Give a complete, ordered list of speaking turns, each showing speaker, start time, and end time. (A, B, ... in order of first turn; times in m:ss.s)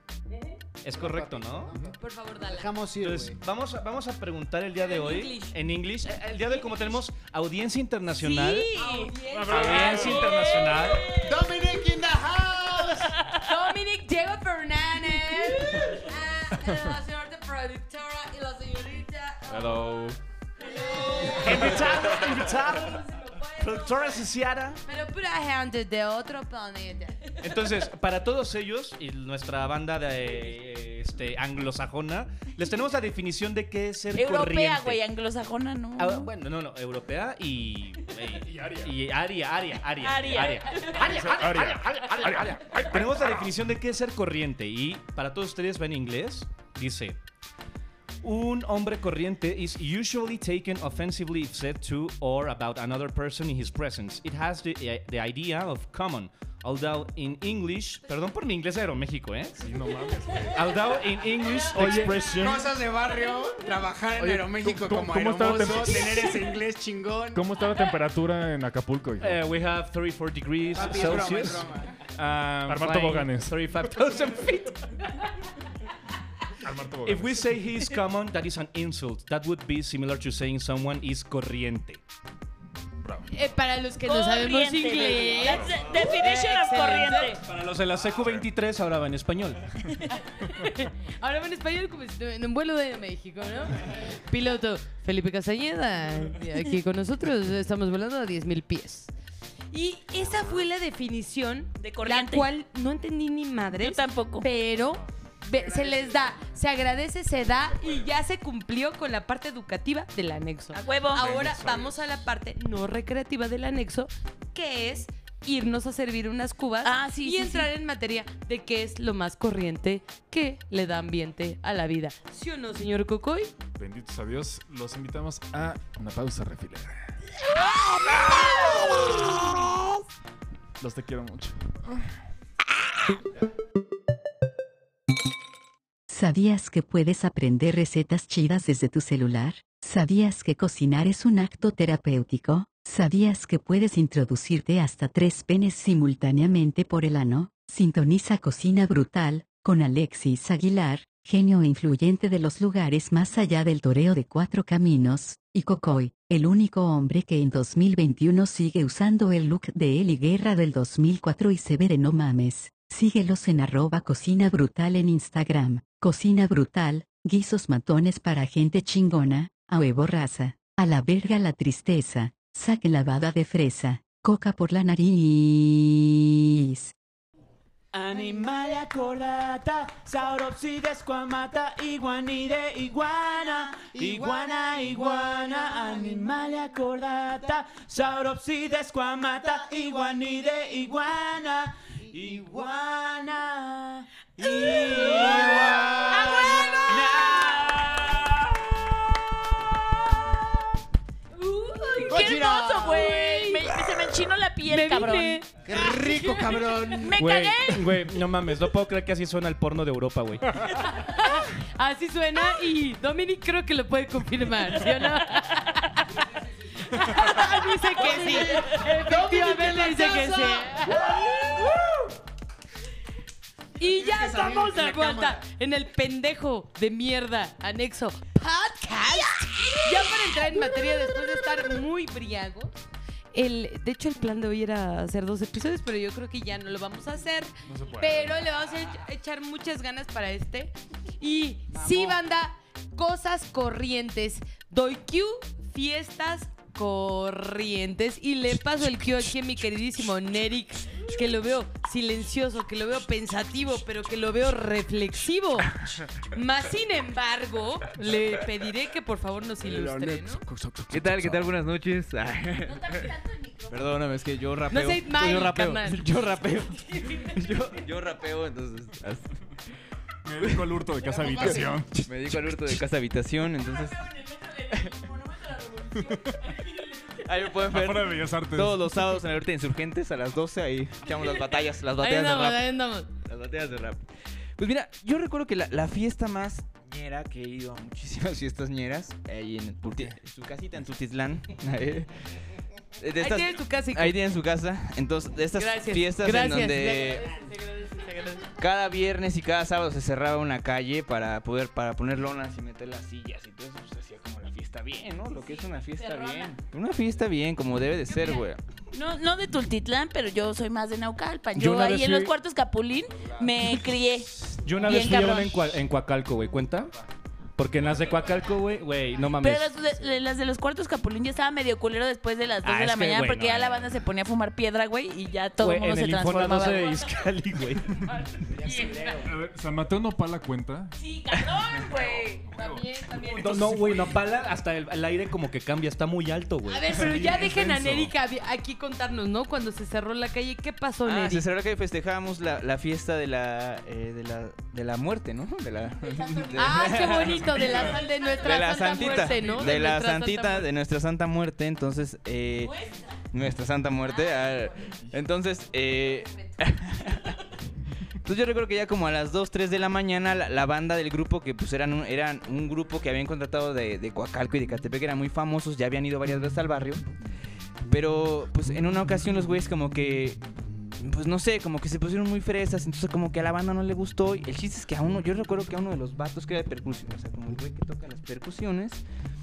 0:00.3-0:00.6 A
0:00.8-0:01.7 B
0:00.9-0:03.4 C
0:02.0-0:02.7 A
0:03.0-0:08.7 B
0:04.8-0:05.5 A
0:06.4-0:06.9 A
0:08.2-0:11.2 A
0:08.2-0:09.1 D
0:09.2-0:10.6 E
0:09.5-0:11.0 B
0:10.5-0:11.3 D
0:11.2-0:13.1 C
0:13.4-0:20.1 A
0:19.5-0:20.1 E
0:20.6-0:21.7 A
0:21.3-0:23.0 B
0:22.6-0:24.1 A
0:23.6-0:24.8 B
0:24.8-0:27.4 A
0:27.4-0:35.0 B
0:34.1-0:36.3 D
0:36.0-0:47.2 B
0:38.6-0:38.8 E
0:40.0-0:41.2 D
0:41.1-0:43.4 E
0:48.2-0:59.6 B
0:59.6-1:00.8 E
1:00.5-1:02.6 B
1:01.7-1:02.6 E
1:01.8-1:07.5 C
1:04.2-1:06.4 E
1:07.3-1:09.4 E
1:09.2-1:14.8 B
1:10.7-1:11.9 C
1:12.6-1:14.5 E
1:16.6-1:17.5 E
1:17.0-1:22.0 B
1:23.0-1:23.4 E
1:23.3-1:27.4 A
1:24.0-1:27.4 D
1:27.4-1:29.7 B
1:28.2-1:28.4 E
1:30.1-1:39.1 A
1:39.7-2:03.5 A
1:40.2-1:40.6 E
1:41.8-1:42.5 D
1:43.8-1:44.4 D
1:45.5-1:46.6 C
1:50.7-1:51.3 D
1:51.1-1:52.2 E
1:56.8-1:57.7 D
2:03.8-2:07.0 E
2:10.8-2:11.6 E
2:16.1-2:56.9 F
2:57.9-3:16.0 G
3:03.8-3:06.4 C
3:12.0-3:12.8 C
3:14.4-3:18.2 D
3:14.8-3:17.4 C
3:16.9-3:18.4 G
3:21.3-3:25.4 D
3:22.0-3:24.1 C
3:24.6-3:26.5 A
3:25.6-3:27.3 C
3:26.8-3:27.9 D
3:27.2-3:30.5 B
3:30.9-3:36.2 A
3:36.8-3:41.0 A
3:37.9-3:42.0 C
3:43.8-3:52.7 A
3:43.8-3:45.4 C
3:53.3-4:20.4 A
3:57.6-3:58.6 E
4:01.7-4:02.1 C
4:19.6-4:20.2 C
4:20.4-4:21.5 E
4:20.9-4:22.9 H
4:22.6-4:23.8 D
4:23.7-4:29.3 H
4:24.7-4:26.0 A
4:26.9-4:27.4 D
4:30.2-4:32.6 E
4:30.4-4:34.0 H
4:31.2-4:31.6 C
4:33.6-4:37.3 D
4:34.7-4:35.0 H
4:37.2-4:42.7 H
4:37.7-4:39.0 E
4:42.0-4:43.1 A
4:43.2-4:44.1 H
4:44.6-4:52.1 H
4:53.0-4:57.3 H
4:53.2-4:54.2 A
4:55.5-4:58.5 A
4:58.6-5:08.6 H
5:05.3-5:06.6 D
5:08.9-5:14.3 D
5:11.6-5:12.3 B
5:14.5-5:16.9 B
5:14.8-5:15.8 D
5:17.6-5:19.7 B
5:19.4-5:27.2 D
5:22.6-5:23.9 B
5:25.6-5:28.0 B
5:28.1-5:29.2 A
5:28.6-5:29.3 C
5:29.2-5:30.9 E
5:31.0-5:32.5 D
5:32.0-5:34.1 E
5:32.5-5:33.8 A
5:33.3-5:36.9 B
5:36.6-5:41.4 A
5:36.9-5:38.1 E
5:41.0-5:52.7 H
5:45.8-5:49.9 D
5:46.5-5:50.7 A
5:52.6-5:53.2 D
5:53.3-5:57.3 H
5:54.0-5:54.9 D
5:56.0-5:57.3 D
5:58.2-6:07.0 H
6:07.9-6:10.4 H
6:11.0-6:19.0 H